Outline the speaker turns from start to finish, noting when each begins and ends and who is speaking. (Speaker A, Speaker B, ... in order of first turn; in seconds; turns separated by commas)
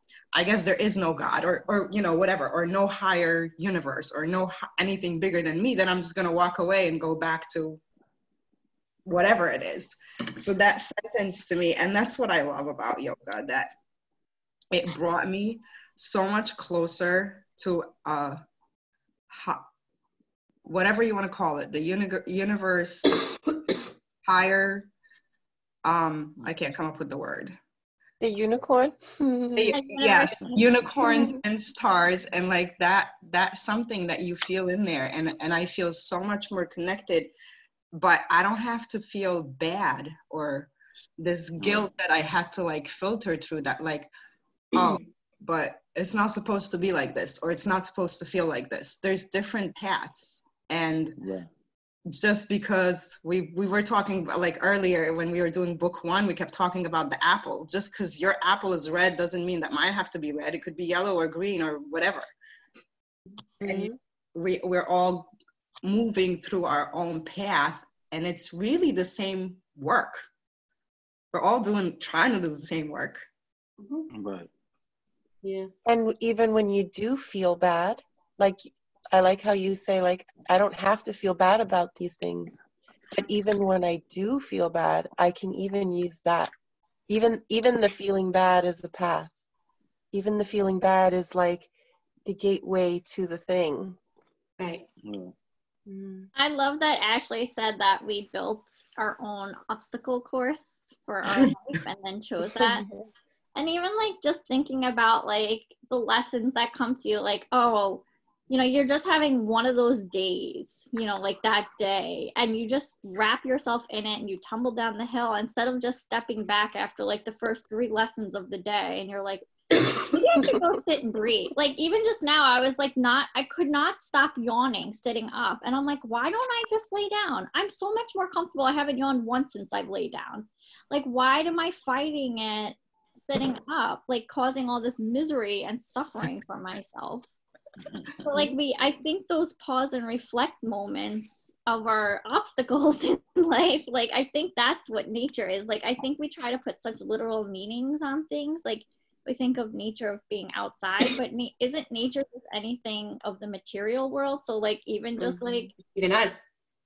Speaker A: 0.3-7.8, Speaker A: 9.1-13.7, Speaker A: 14.7-18.4, Speaker A: 19.3-19.7, Speaker A: 20.6-23.2, Speaker A: 24.2-24.9, Speaker A: 25.8-27.6, Speaker B: 28.2-29.7, Speaker A: 29.6-37.3, Speaker C: 29.7-31.4, Speaker A: 37.9-44.1, Speaker D: 41.6-41.9, Speaker A: 44.7-51.1, Speaker D: 51.2-51.5, Speaker A: 52.1-62.2, Speaker B: 63.6-63.9, Speaker A: 63.6-70.2, Speaker A: 71.3-73.2, Speaker E: 73.8-74.1, Speaker D: 74.1-74.5, Speaker E: 75.4-75.7, Speaker B: 75.8-82.6, Speaker B: 83.1-86.5, Speaker B: 87.1-89.3, Speaker B: 90.1-91.7, Speaker B: 92.2-94.0, Speaker E: 94.6-94.8, Speaker D: 95.0-95.3, Speaker B: 95.9-96.3, Speaker C: 96.3-102.9, Speaker A: 101.2-101.5, Speaker B: 102.4-103.1, Speaker C: 103.5-137.3, Speaker D: 137.8-138.3, Speaker C: 138.2-155.7, Speaker E: 155.2-156.5